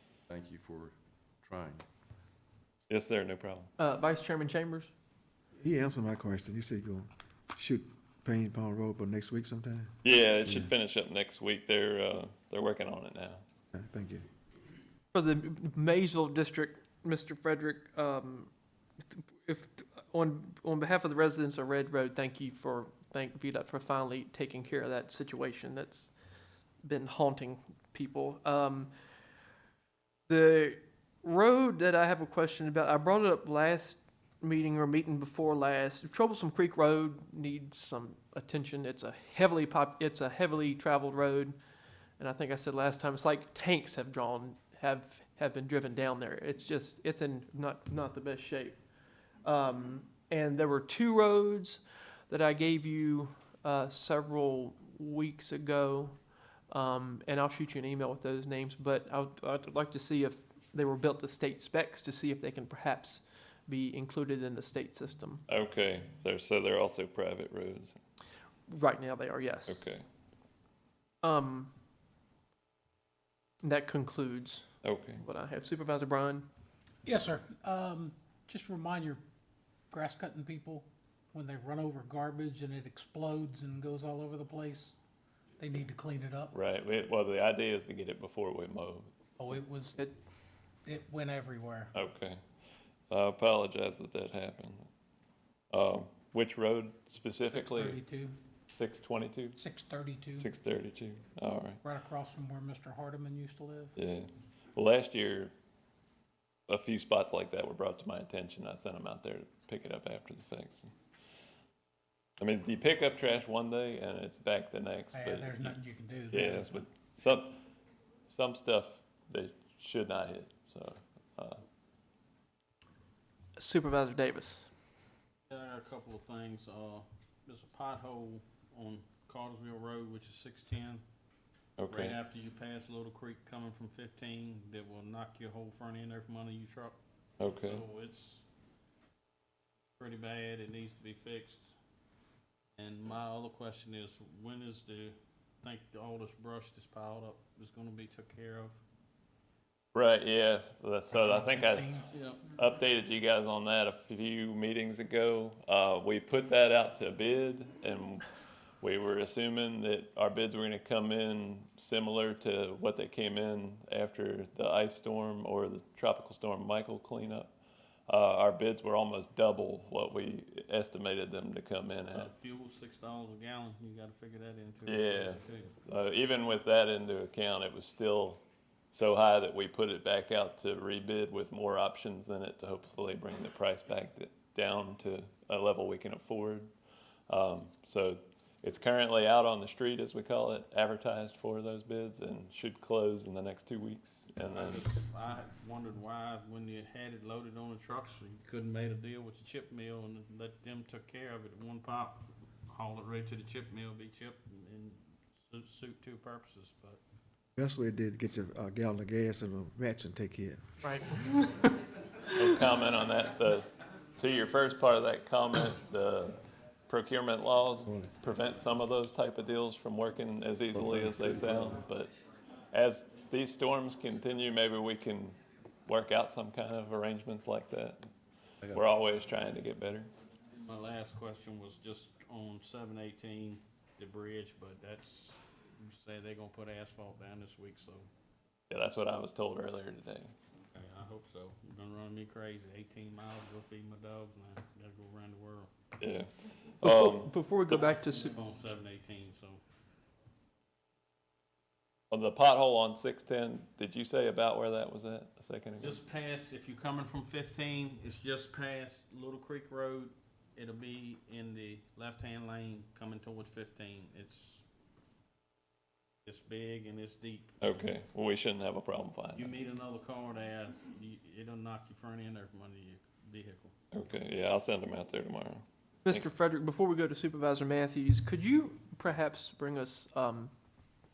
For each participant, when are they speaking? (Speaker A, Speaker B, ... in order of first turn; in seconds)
Speaker A: 0.3-1.8, 221.0-221.7
Speaker B: 2.9-3.7, 10.0-13.4, 65.5-68.0, 69.7-70.0, 74.8-75.2, 86.5-89.6, 91.9-92.4, 93.1-94.9, 95.7-98.0, 98.7-99.6, 100.4-101.8, 103.9-105.5, 106.7-110.9, 112.4-117.6, 118.3-121.6, 131.8-132.2, 137.4-137.8, 149.9-151.9, 152.5-167.5, 168.1-172.3, 174.8-186.7, 187.3-194.9, 212.3-222.1, 222.7-228.1, 228.7-230.1, 238.7-240.3, 246.0-247.8, 252.1-256.0, 267.6-269.5, 273.9-276.3
Speaker C: 3.8-4.9, 15.1-26.1, 26.8-28.9, 30.3-41.5, 42.2-48.8, 49.4-65.4, 68.7-69.8, 71.2-71.7, 73.6-74.7, 75.2-76.5, 123.5-124.7, 210.8-211.6, 247.3-248.4, 276.1-280.5
Speaker D: 5.6-9.9, 13.7-14.2, 207.6-210.6
Speaker E: 77.0-79.2, 79.9-84.9, 85.6-86.5, 89.4-90.0, 90.8-91.9, 97.5-98.4, 99.6-100.4, 101.8-103.9, 115.1-116.6, 151.3-152.0
Speaker F: 125.5-131.0, 131.9-138.4, 140.0-141.8, 142.8-148.8, 152.1-152.4, 172.1-175.8, 194.4-207.0, 230.6-238.1, 240.7-245.7, 247.7-249.6, 255.8-264.6, 266.2-267.6, 269.3-273.7